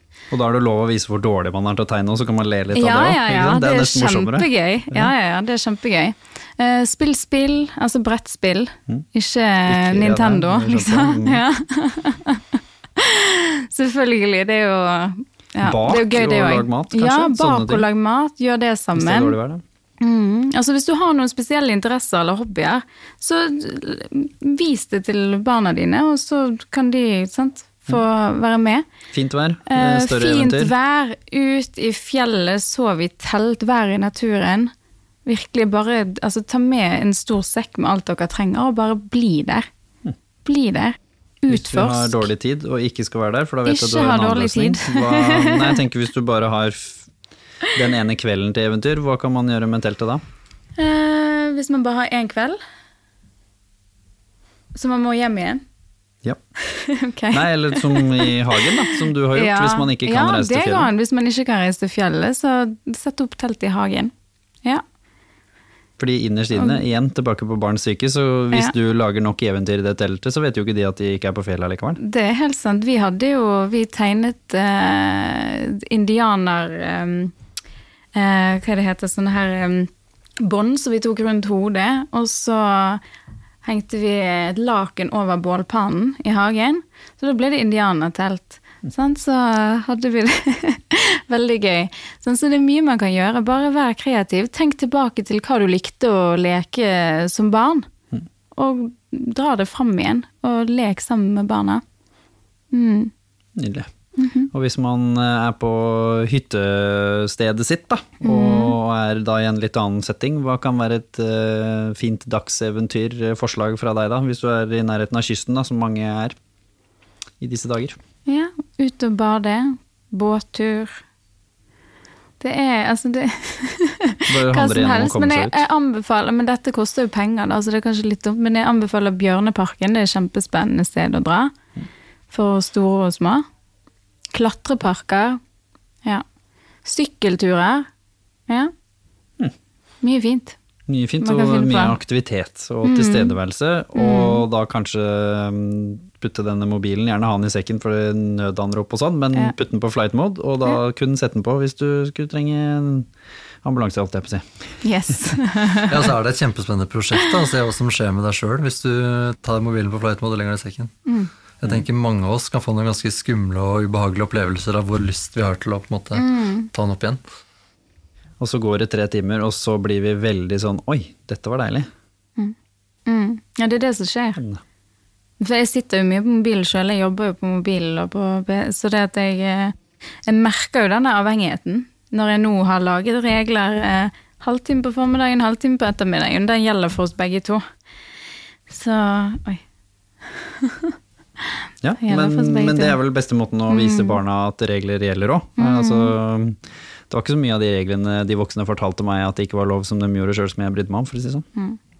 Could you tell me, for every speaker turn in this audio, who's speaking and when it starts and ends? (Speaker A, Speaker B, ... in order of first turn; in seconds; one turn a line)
Speaker A: 0.3-5.1
Speaker B: 2.7-19.3
Speaker A: 9.6-11.4
Speaker A: 15.6-17.8
Speaker A: 18.9-19.6
Speaker B: 20.0-28.8
Speaker A: 29.1-30.7
Speaker B: 29.7-34.7
Speaker B: 35.2-39.7
Speaker B: 40.4-42.3
Speaker A: 41.5-47.1
Speaker B: 43.6-45.8
Speaker A: 47.7-50.2
Speaker B: 50.8-52.6
Speaker B: 54.7-55.6
Speaker B: 56.6-64.1
Speaker A: 57.3-60.9
Speaker A: 66.0-72.0
Speaker B: 72.0-77.3
Speaker B: 78.1-83.0
Speaker B: 83.6-97.9
Speaker B: 98.5-101.8
Speaker B: 102.7-103.1
Speaker A: 103.6-103.9
Speaker B: 104.2-104.5
Speaker A: 104.5-116.4
Speaker B: 108.2-108.7
Speaker A: 117.4-118.0
Speaker B: 118.3-121.0
Speaker B: 122.4-131.5
Speaker A: 124.3-125.6
Speaker B: 132.3-133.4
Speaker B: 134.3-135.4
Speaker B: 136.8-137.9
Speaker B: 140.0-140.6
Speaker A: 140.9-153.1
Speaker B: 141.2-142.0
Speaker B: 142.8-143.3
Speaker B: 143.9-144.4
Speaker A: 153.6-154.8
Speaker B: 154.8-156.1
Speaker C: 155.9-160.9
Speaker B: 161.1-161.3
Speaker C: 161.6-167.2
Speaker B: 166.2-166.7
Speaker A: 168.4-171.9
Speaker B: 173.1-174.4
Speaker B: 175.4-179.7
Speaker B: 180.2-187.6
Speaker B: 188.7-189.6
Speaker B: 190.2-190.9
Speaker A: 191.8-201.4
Speaker B: 192.0-193.0
Speaker B: 193.7-194.2
Speaker B: 195.6-196.1